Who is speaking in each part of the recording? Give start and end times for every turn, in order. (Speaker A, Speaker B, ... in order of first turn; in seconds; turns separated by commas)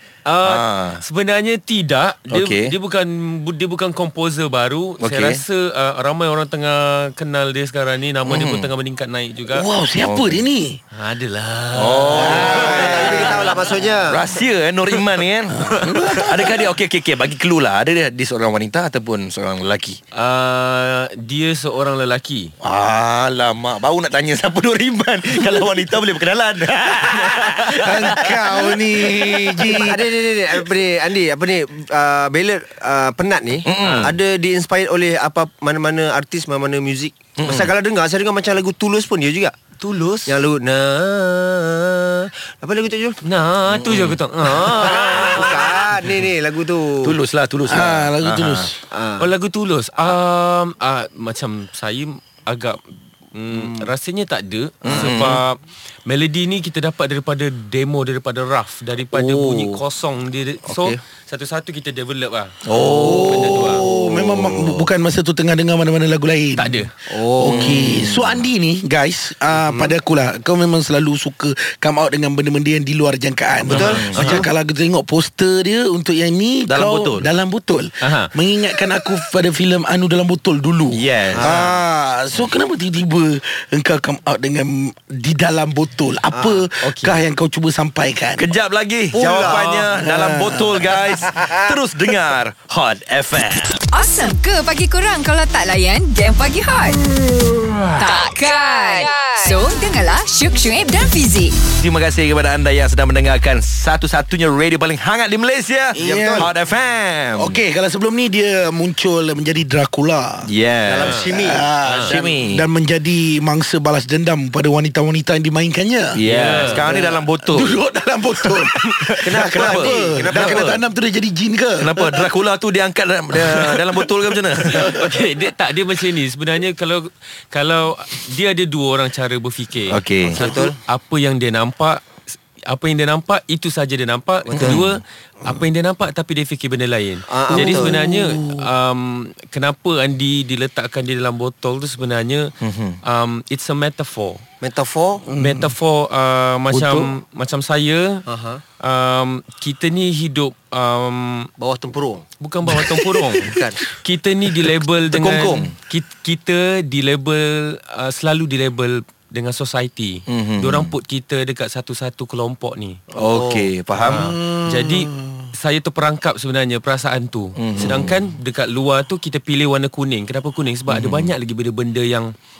Speaker A: 0.2-9.7, Speaker B: 0.4-1.0, Speaker B: 2.3-2.7, Speaker B: 5.0-5.4, Speaker B: 8.2-8.7, Speaker C: 9.5-10.8, Speaker B: 10.0-10.4, Speaker A: 10.9-13.5, Speaker B: 11.7-13.3, Speaker C: 12.2-13.1, Speaker D: 12.4-14.2, Speaker B: 14.1-20.0, Speaker C: 15.6-16.6, Speaker A: 20.1-22.5, Speaker B: 22.6-29.2, Speaker C: 27.7-30.1, Speaker D: 29.6-43.2, Speaker B: 33.6-34.2, Speaker A: 33.8-34.1, Speaker B: 37.4-37.7, Speaker A: 43.2-45.9, Speaker B: 43.7-44.2, Speaker D: 44.5-47.2, Speaker B: 47.0-48.7, Speaker C: 47.7-48.8, Speaker D: 48.9-49.3, Speaker A: 49.2-52.8, Speaker A: 53.3-63.8, Speaker D: 53.5-53.9, Speaker B: 54.8-55.4, Speaker D: 59.1-59.8, Speaker D: 60.6-61.0, Speaker B: 62.7-63.2, Speaker C: 62.9-88.5, Speaker D: 63.2-64.0, Speaker B: 64.2-64.9, Speaker A: 66.6-66.9, Speaker D: 67.1-67.8, Speaker B: 67.4-68.4, Speaker D: 69.6-69.9, Speaker A: 73.7-74.5, Speaker D: 73.7-74.5, Speaker B: 73.8-74.2, Speaker B: 76.7-77.3, Speaker A: 78.0-78.3, Speaker B: 80.9-81.6, Speaker D: 81.3-81.8, Speaker D: 86.3-86.6, Speaker A: 86.8-87.2, Speaker B: 88.4-93.8, Speaker D: 89.1-89.9, Speaker C: 89.7-90.9, Speaker D: 91.0-91.8, Speaker E: 93.9-97.0, Speaker E: 98.0-101.5, Speaker B: 101.8-107.6, Speaker C: 105.9-106.5, Speaker D: 106.0-106.5, Speaker C: 107.4-110.5, Speaker B: 110.5-111.2, Speaker D: 110.8-111.7, Speaker A: 111.0-112.2, Speaker C: 111.2-116.2, Speaker B: 112.0-112.6, Speaker B: 116.1-117.8, Speaker A: 116.2-117.0, Speaker C: 116.8-122.3, Speaker B: 118.4-120.8, Speaker D: 119.2-120.7, Speaker B: 121.8-124.9, Speaker C: 123.3-125.2, Speaker A: 124.7-132.0, Speaker B: 129.9-130.4, Speaker D: 130.3-130.7, Speaker A: 132.7-142.5, Speaker D: 134.4-134.8, Speaker B: 134.6-135.0, Speaker D: 137.3-137.9, Speaker C: 137.5-138.7, Speaker B: 142.6-143.0, Speaker A: 143.0-144.4, Speaker D: 144.6-145.3, Speaker C: 145.2-145.7, Speaker A: 145.4-148.2, Speaker B: 146.7-147.1, Speaker D: 148.3-148.6, Speaker A: 148.8-151.5, Speaker D: 151.6-152.2, Speaker A: 152.4-163.0, Speaker D: 153.2-153.9, Speaker B: 155.1-155.7, Speaker B: 160.3-160.9, Speaker B: 163.1-164.4, Speaker D: 163.1-163.7, Speaker A: 164.0-172.3, Speaker C: 164.1-165.5, Speaker B: 167.6-168.1, Speaker B: 170.9-171.3